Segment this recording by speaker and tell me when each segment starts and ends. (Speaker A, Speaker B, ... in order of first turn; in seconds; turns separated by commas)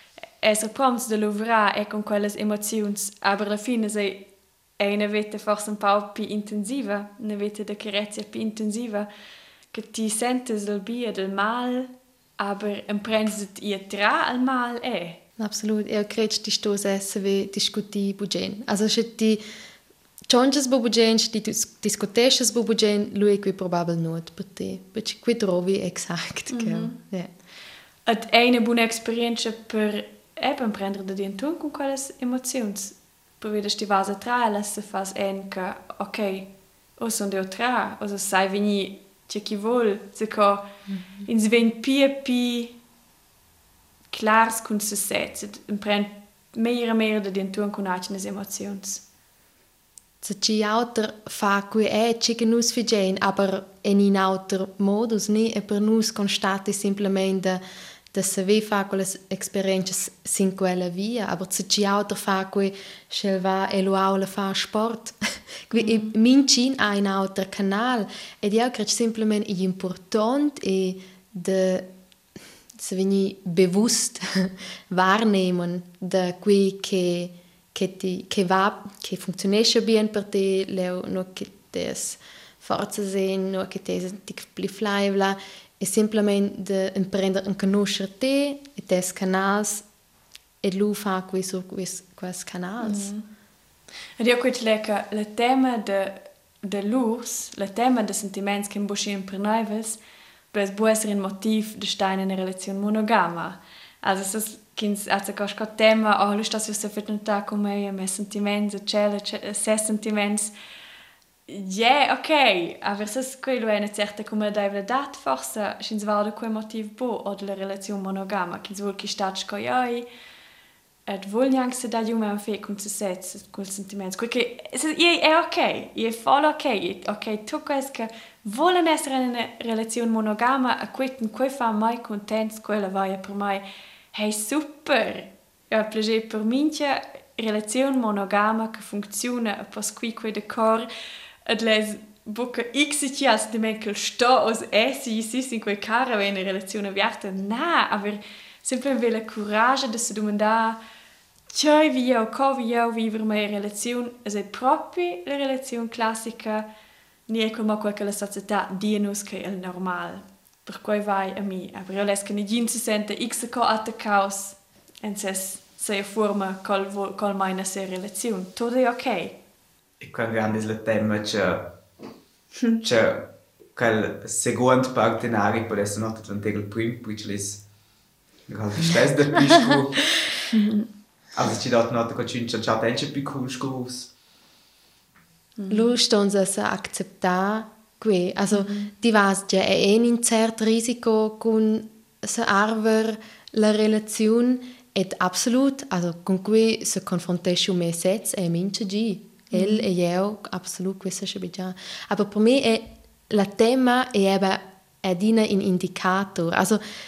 Speaker A: 0.4-4.2, Speaker A: 4.8-9.1, Speaker A: 9.7-15.2, Speaker B: 15.4-19.4, Speaker B: 20.3-27.3, Speaker A: 26.5-27.0, Speaker A: 28.1-36.5, Speaker A: 37.0-40.6, Speaker B: 40.9-41.2, Speaker A: 41.3-42.7, Speaker A: 44.1-49.0, Speaker B: 50.2-57.6, Speaker B: 58.1-71.9, Speaker A: 65.8-66.1, Speaker B: 72.8-89.8, Speaker B: 90.6-93.1, Speaker A: 92.8-93.2, Speaker A: 94.2-100.0, Speaker A: 100.5-110.5, Speaker A: 111.5-120.1, Speaker A: 121.1-140.9, Speaker A: 141.5-150.8, Speaker A: 151.5-156.7, Speaker A: 157.3-169.3, Speaker C: 170.0-171.7, Speaker C: 172.8-177.6, Speaker C: 178.5-180.2, Speaker B: 179.5-179.8, Speaker A: 180.5-180.9, Speaker C: 181.3-184.1, Speaker A: 185.6-185.9, Speaker B: 185.7-206.8, Speaker A: 188.5-188.9, Speaker A: 199.5-199.9